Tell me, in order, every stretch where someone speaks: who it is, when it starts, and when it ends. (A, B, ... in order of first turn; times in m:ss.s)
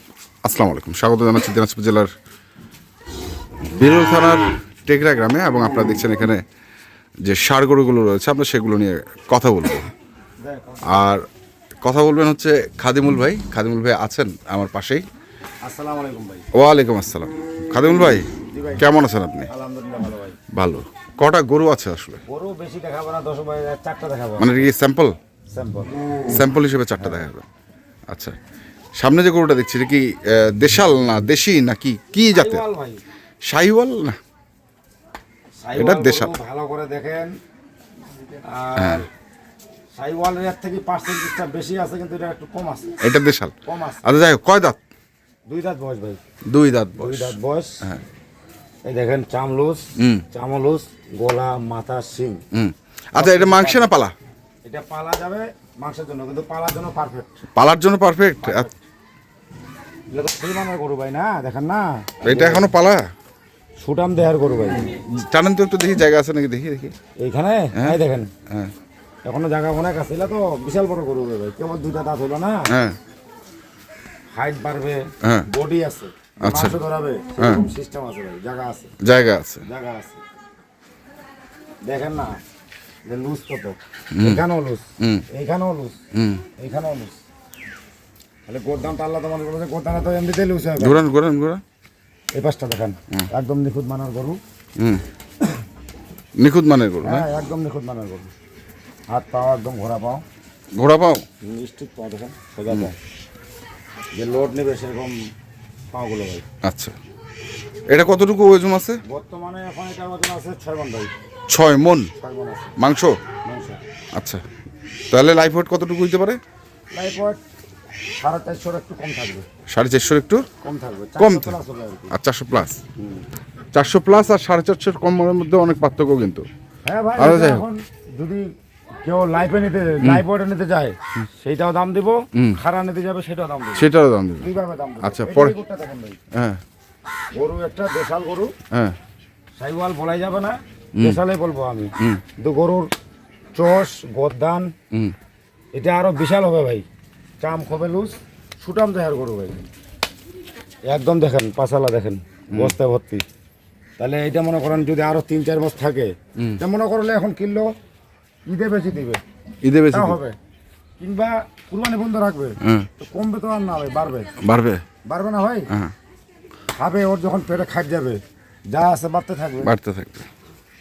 0:00.4-0:02.1 A
0:03.7-0:06.4 A
0:07.2-0:09.9 A
0:10.4-0:11.0 B
0:10.9-0:11.2 A
0:11.8-0:15.0 A
0:15.6-0:16.4 B
0:16.5-0:19.5 A
0:18.5-0:18.8 B
0:19.5-0:20.4 B
0:20.5-0:22.2 A
0:22.2-0:24.6 B
0:24.4-0:25.2 A
0:25.5-0:25.9 B
0:26.3-0:27.4 A
0:27.0-0:27.2 B
0:28.1-0:28.4 A
0:29.0-0:32.6 A
0:32.3-0:33.0 B
0:33.4-0:34.2 A
0:35.6-0:37.3 B
0:35.8-0:36.3 A
0:38.4-0:39.1 B
0:38.8-0:39.0 A
0:39.9-0:43.0 B
0:43.0-0:44.8 A
0:43.6-0:44.1 B
0:45.5-0:46.2 B
0:46.5-0:48.0 A
0:47.0-0:47.8 B
0:48.8-0:52.4 B
0:50.0-0:50.2 A
0:52.5-0:54.1 A
0:53.2-0:53.9 B
0:54.6-0:57.3 B
0:57.6-0:58.7 A
0:58.4-0:58.8 B
1:00.1-1:02.7 B
1:02.2-1:03.1 A
1:03.8-1:04.9 B
1:04.8-1:06.9 A
1:07.2-1:08.3 B
1:09.2-1:12.7 B
1:12.7-1:13.0 A
1:14.3-1:18.9 B
1:15.2-1:15.5 A
1:16.4-1:16.8 A
1:17.4-1:17.6 A
1:19.0-1:19.6 A
1:19.6-1:20.2 B
1:21.8-1:22.4 B
1:23.0-1:26.0 B
1:24.1-1:24.4 A
1:26.1-1:26.4 A
1:26.6-1:27.2 B
1:28.5-1:31.0 B
1:30.8-1:31.6 A
1:32.3-1:34.4 B
1:34.8-1:35.0 A
1:36.4-1:37.2 A
1:37.0-1:38.3 B
1:39.1-1:40.2 B
1:40.7-1:41.2 A
1:41.4-1:43.0 B
1:44.1-1:45.2 B
1:45.9-1:46.4 B
1:46.6-1:47.0 A
1:47.9-1:49.0 A
1:49.0-1:51.1 B
1:51.5-1:52.1 A
1:52.2-1:52.8 B
1:52.8-1:53.2 A
1:53.4-1:53.8 B
1:54.2-1:54.4 A
1:55.1-1:56.4 A
1:56.9-1:57.4 B
1:58.2-1:59.4 B
1:59.7-2:00.5 A
2:00.6-2:02.1 B
2:01.2-2:01.6 A
2:02.1-2:02.8 A
2:03.0-2:03.2 B
2:03.7-2:06.4 A
2:06.8-2:08.5 B
2:07.2-2:07.6 A
2:09.0-2:13.9 B
2:13.7-2:14.5 A
2:14.4-2:16.2 B
2:15.0-2:15.5 A
2:16.3-2:16.6 A
2:17.3-2:18.5 B
2:18.7-2:19.0 A
2:19.6-2:22.9 B
2:23.5-2:24.7 B
2:25.7-2:26.8 B
2:27.4-2:29.6 B
2:30.8-2:33.2 B
2:34.0-2:37.7 B
2:38.5-2:39.2 B
2:39.6-2:40.2 A
2:39.9-2:40.4 B
2:41.0-2:44.3 B
2:42.6-2:42.9 A
2:44.4-2:44.8 A
2:45.0-2:45.7 B
2:46.8-2:49.7 B
2:49.6-2:50.3 A